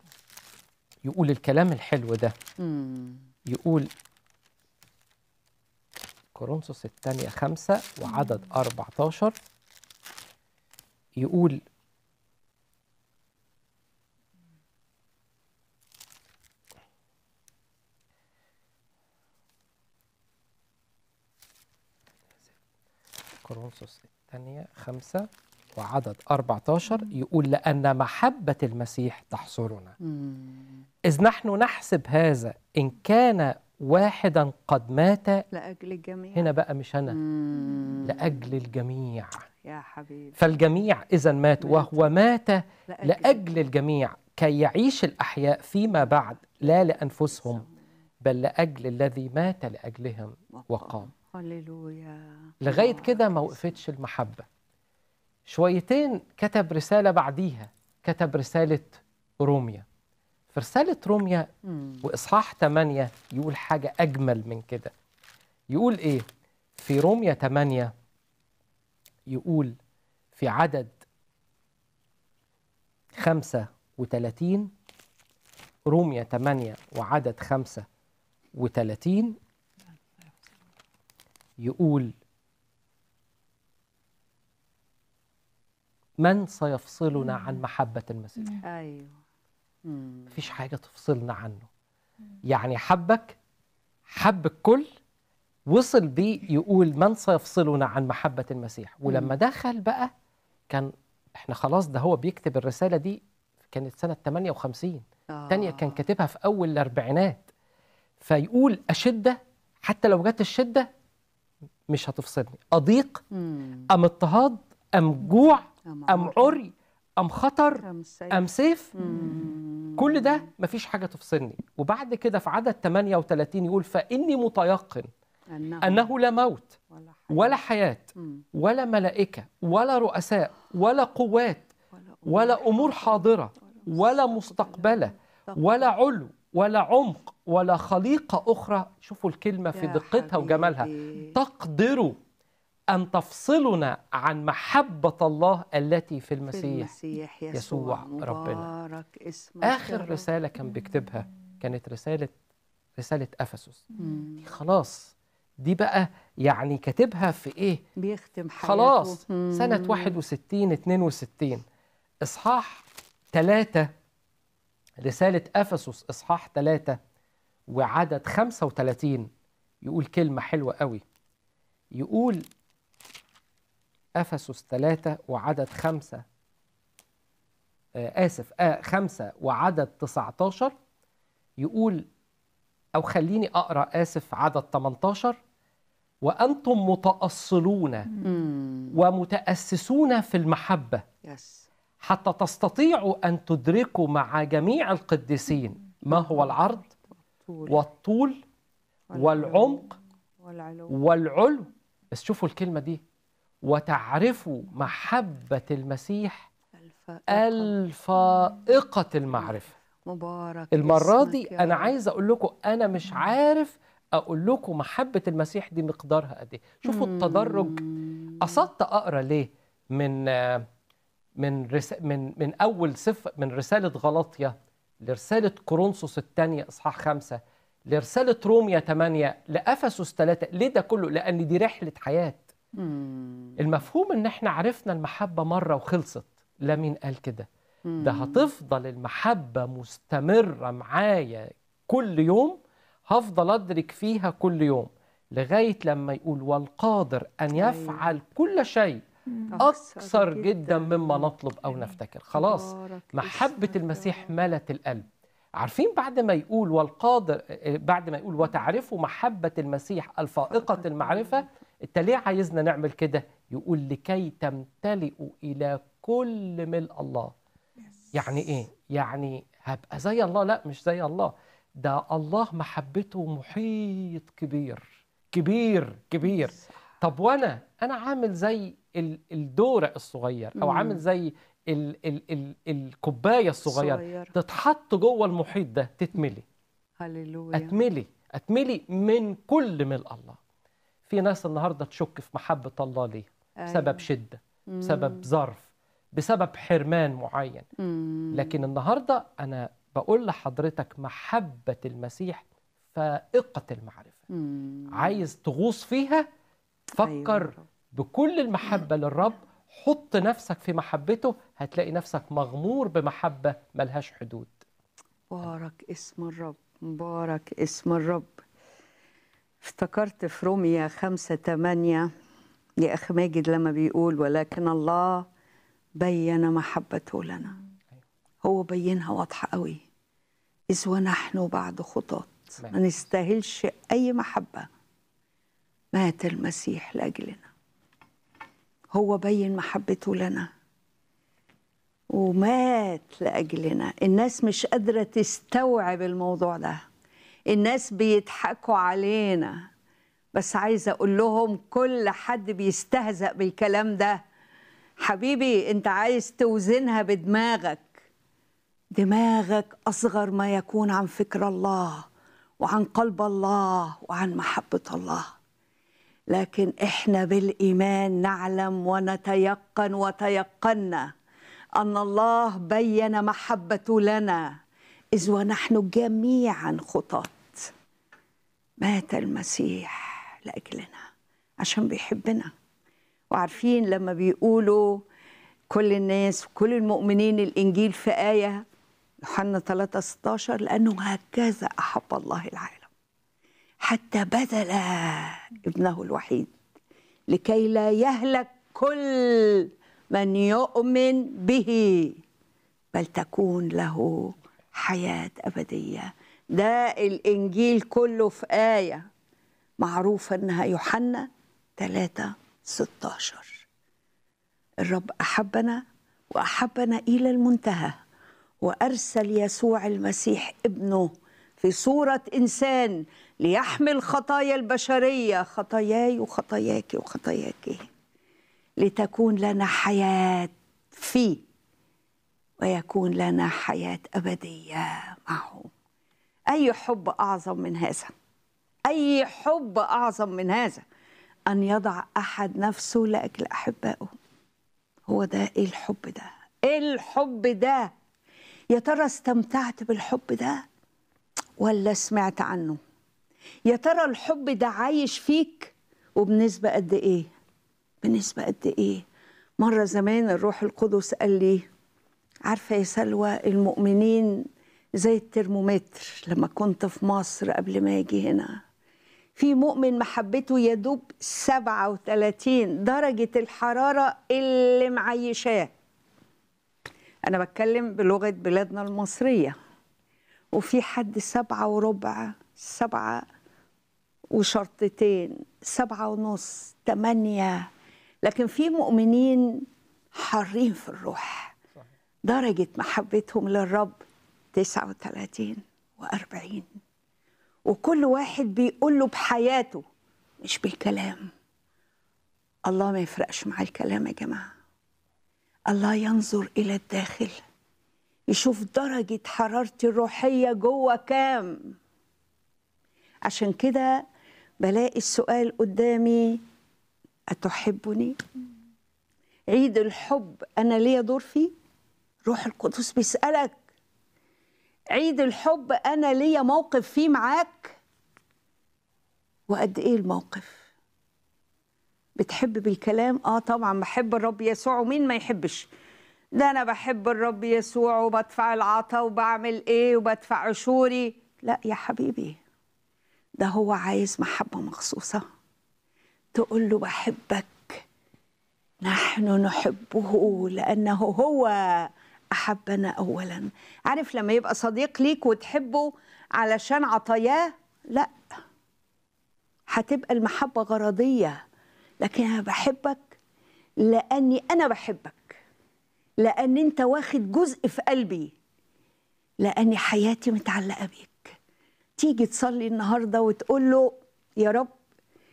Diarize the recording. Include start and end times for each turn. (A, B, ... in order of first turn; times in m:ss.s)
0:01.0-0:02.3 A
0:02.6-0:03.2 B
0:03.5-0:03.9 A
0:06.3-0:09.3 A
0:11.2-0:11.6 A
0:23.4-0:29.9 A
0:30.0-0:30.7 B
0:31.1-0:35.4 A
0:35.5-0:36.5 B
0:36.4-0:37.2 A
0:37.1-0:38.4 B
0:38.0-0:39.4 A
0:39.6-0:40.5 B
0:40.4-0:47.6 A
0:41.6-0:42.1 B
0:42.9-0:43.6 B
0:48.2-0:51.1 A
0:50.5-0:53.2 B
0:52.6-0:54.4 A
0:55.4-0:59.8 A
1:00.5-1:01.5 A
1:01.7-1:02.0 B
1:02.0-1:04.9 A
1:05.7-1:06.2 A
1:06.8-1:07.9 A
1:09.3-1:09.8 A
1:10.4-1:10.9 A
1:13.2-1:14.7 A
1:15.9-1:17.8 A
1:18.6-1:19.4 A
1:21.6-1:22.1 A
1:26.2-1:28.6 A
1:28.6-1:29.1 B
1:29.9-1:30.3 B
1:30.3-1:31.7 A
1:32.5-1:33.3 A
1:34.1-1:34.8 A
1:35.7-1:40.1 A
1:39.1-1:39.3 B
1:40.7-1:47.4 A
1:45.3-1:46.0 B
1:48.2-1:50.9 A
1:51.9-1:53.2 A
1:53.4-1:53.9 B
1:53.9-1:58.9 A
1:55.9-1:56.5 B
1:57.8-1:58.4 B
1:59.0-2:00.4 B
2:00.0-2:05.1 A
2:05.5-2:06.1 B
2:05.8-2:06.8 A
2:06.9-2:07.6 B
2:07.3-2:11.7 A
2:12.0-2:15.8 B
2:12.3-2:22.2 A
2:19.7-2:21.3 B
2:22.9-2:26.9 A
2:26.5-2:30.3 B
2:27.5-2:28.7 A
2:29.6-2:32.3 A
2:33.0-2:33.8 A
2:34.0-2:34.4 B
2:34.4-2:37.8 A
2:38.0-2:40.1 B
2:38.6-2:41.6 A
2:42.2-2:43.9 A
2:45.0-2:47.0 A
2:47.7-2:49.3 A
2:49.8-2:51.0 A
2:52.0-2:52.4 A
2:54.2-2:56.2 A
2:58.0-3:00.7 A
3:01.6-3:02.0 A
3:02.9-3:05.4 A
3:06.2-3:08.2 A
3:08.2-3:09.0 B
3:08.9-3:11.0 A
3:11.2-3:11.7 B
3:12.0-3:16.9 A
3:16.1-3:16.4 B
3:17.4-3:17.8 B
3:17.7-3:18.4 A
3:19.1-3:20.9 B
3:19.1-3:19.9 A
3:20.9-3:23.0 A
3:23.6-3:26.5 A
3:26.8-3:27.8 B
3:27.3-3:29.7 A
3:29.5-3:31.9 B
3:30.7-3:37.8 A
3:36.9-3:38.5 B
3:38.4-3:40.7 A
3:41.4-3:52.4 A
3:52.8-3:53.6 B
3:53.6-3:57.5 A
3:57.9-3:58.5 B
3:58.0-4:09.0 A
4:07.5-4:08.1 B
4:09.5-4:11.3 B
4:09.6-4:27.3 A
4:12.3-4:14.3 B
4:20.6-4:21.0 B
4:28.1-4:46.4 A
4:40.6-4:41.0 B
4:43.6-4:44.3 B
4:47.0-4:47.8 B
4:47.5-4:50.4 A
4:51.1-4:57.7 A
4:53.6-4:54.1 B
4:54.7-4:55.2 B
4:57.8-4:58.6 B
4:58.3-5:04.2 A
5:04.3-5:05.2 B
5:04.9-5:06.2 A
5:07.0-5:14.6 A
5:07.0-5:07.6 B
5:15.3-5:18.4 B
5:19.6-5:22.1 B
5:22.8-5:25.3 B
5:26.0-5:27.5 B
5:28.4-5:29.8 B
5:30.7-5:34.7 B
5:35.9-5:37.5 B
5:38.9-5:40.5 B
5:42.1-5:46.8 B
5:47.5-5:49.7 B
5:50.3-5:54.2 B
5:55.0-5:57.9 B
5:58.9-6:02.0 B
6:02.6-6:05.3 B
6:06.3-6:11.1 B
6:11.8-6:14.6 B
6:15.1-6:17.7 B
6:18.8-6:21.0 B
6:21.6-6:22.5 B
6:23.3-6:25.0 B
6:25.7-6:28.6 B
6:29.2-6:32.9 B
6:33.8-6:36.5 B
6:37.3-6:42.2 B
6:42.9-6:49.1 B
6:49.8-6:53.6 B
6:54.8-6:58.0 B
6:58.6-7:07.9 B
7:08.8-7:11.4 B
7:12.6-7:15.7 B
7:16.5-7:18.1 B
7:18.9-7:20.8 B
7:21.5-7:24.1 B
7:25.1-7:27.9 B
7:28.7-7:30.6 B
7:31.6-7:32.8 B
7:33.6-7:37.3 B
7:38.0-7:39.0 B
7:39.6-7:41.7 B
7:42.4-7:48.6 B
7:49.4-7:55.7 B
7:57.2-7:59.5 B
8:00.5-8:03.2 B
8:04.3-8:07.7 B
8:08.2-8:11.5 B
8:12.2-8:14.0 B
8:14.5-8:16.8 B
8:17.6-8:19.8 B
8:20.4-8:21.3 B
8:22.6-8:24.5 B
8:25.7-8:27.4 B
8:28.3-8:31.8 B
8:33.2-8:34.0 B
8:34.6-8:36.4 B
8:37.3-8:38.2 B
8:39.5-8:41.5 B
8:42.2-8:43.6 B
8:44.9-8:47.8 B
8:49.5-8:50.6 B
8:52.2-8:55.7 B
8:56.3-9:02.4 B
9:03.4-9:05.2 B
9:06.3-9:07.8 B
9:08.8-9:18.1 B
9:19.7-9:21.4 B
9:22.0-9:23.2 B
9:23.8-9:25.4 B
9:26.2-9:28.3 B
9:29.4-9:31.4 B
9:32.0-9:34.7 B